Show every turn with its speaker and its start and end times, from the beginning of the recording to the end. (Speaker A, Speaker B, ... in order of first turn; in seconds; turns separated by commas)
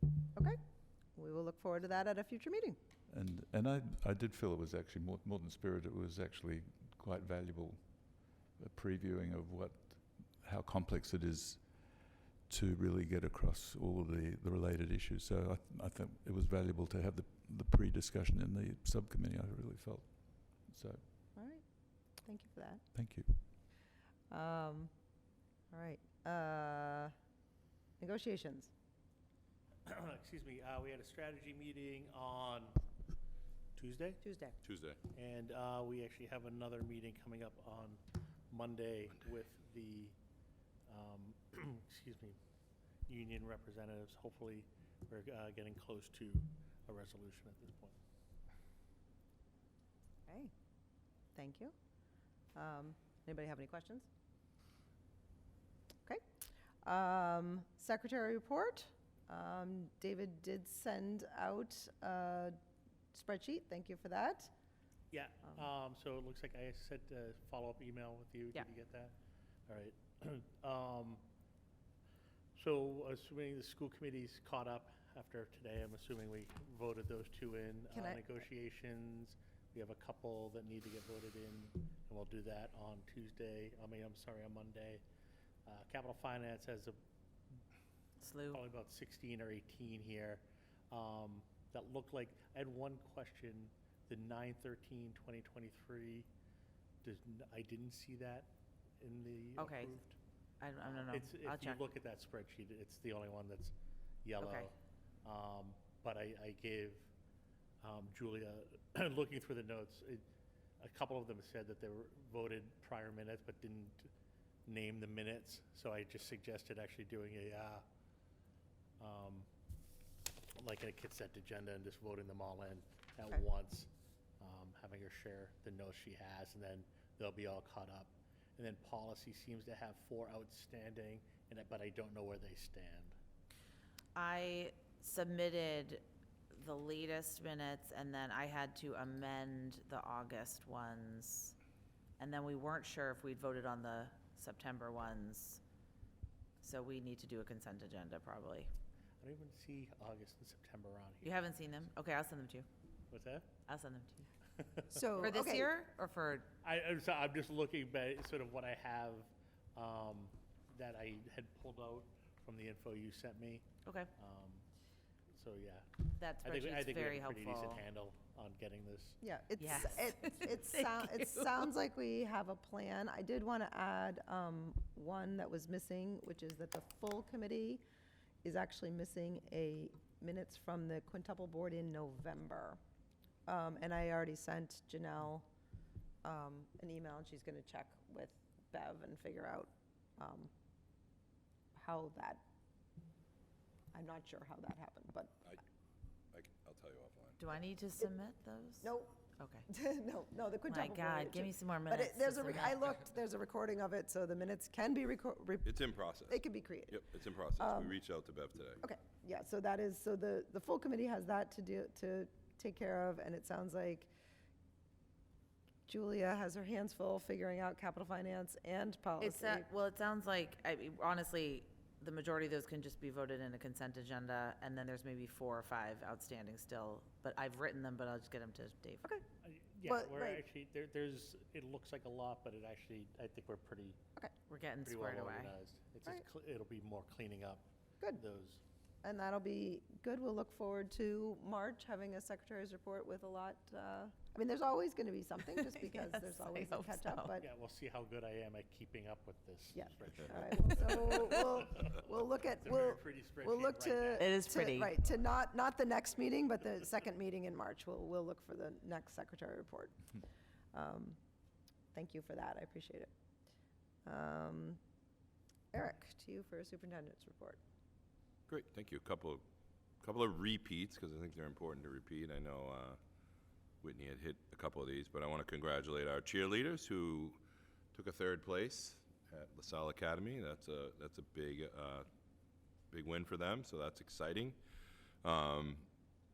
Speaker A: 1.1-2.8, Speaker B: 3.1-8.0, Speaker B: 8.6-21.1, Speaker A: 21.3-21.6, Speaker A: 22.2-22.8, Speaker B: 22.9-23.4, Speaker A: 24.3-24.9, Speaker A: 25.7-27.1, Speaker A: 28.0-28.7, Speaker C: 29.8-32.8, Speaker C: 33.7-34.2, Speaker A: 34.2-34.6, Speaker D: 34.6-35.0, Speaker C: 35.1-40.2, Speaker C: 40.9-42.4, Speaker C: 43.0-48.0, Speaker A: 50.3-50.5, Speaker A: 51.3-51.7, Speaker A: 52.5-54.1, Speaker A: 56.8-62.5, Speaker A: 63.1-64.5, Speaker C: 65.1-71.3, Speaker C: 72.5-85.0, Speaker A: 77.9-78.4, Speaker C: 85.6-87.0, Speaker E: 88.2-88.6, Speaker C: 88.5-96.3, Speaker C: 97.0-100.2, Speaker E: 99.6-100.0, Speaker E: 100.6-101.8, Speaker C: 100.8-107.1, Speaker E: 104.4-104.7, Speaker C: 107.8-110.3, Speaker C: 110.8-114.1, Speaker C: 114.7-117.8, Speaker C: 119.0-119.5, Speaker C: 120.5-133.2, Speaker E: 134.1-141.5, Speaker E: 142.2-145.6, Speaker E: 146.6-148.7, Speaker C: 149.2-151.4, Speaker E: 151.2-152.7, Speaker C: 153.1-153.5, Speaker E: 153.7-154.3, Speaker C: 154.5-155.0, Speaker A: 154.9-155.7, Speaker E: 155.2-156.5, Speaker C: 156.6-164.6, Speaker E: 163.8-164.1, Speaker C: 165.3-169.2, Speaker E: 166.1-167.9, Speaker A: 169.2-177.8, Speaker E: 169.6-171.5, Speaker A: 178.4-182.8, Speaker A: 183.5-185.4, Speaker A: 186.2-190.5, Speaker A: 191.8-192.4, Speaker A: 193.9-195.5, Speaker D: 196.3-197.4, Speaker E: 197.4-198.8, Speaker A: 198.8-207.0, Speaker E: 199.4-199.7, Speaker E: 200.7-202.8, Speaker D: 205.6-208.8, Speaker A: 207.5-208.0, Speaker A: 208.8-214.1, Speaker A: 215.9-219.7, Speaker E: 219.2-229.1, Speaker C: 229.4-234.0, Speaker A: 229.8-230.4, Speaker E: 234.5-235.6, Speaker C: 234.8-238.6, Speaker A: 239.0-247.4, Speaker E: 245.4-247.4, Speaker C: 247.4-254.4, Speaker A: 249.7-260.1, Speaker E: 251.1-251.4, Speaker E: 254.2-254.9, Speaker A: 260.7-261.2, Speaker A: 261.9-263.1, Speaker A: 264.0-264.8, Speaker A: 265.7-267.6, Speaker D: 268.5-269.4, Speaker D: 270.0-273.0, Speaker D: 273.8-277.4, Speaker D: 277.9-282.1, Speaker D: 282.9-284.6, Speaker D: 285.2-285.9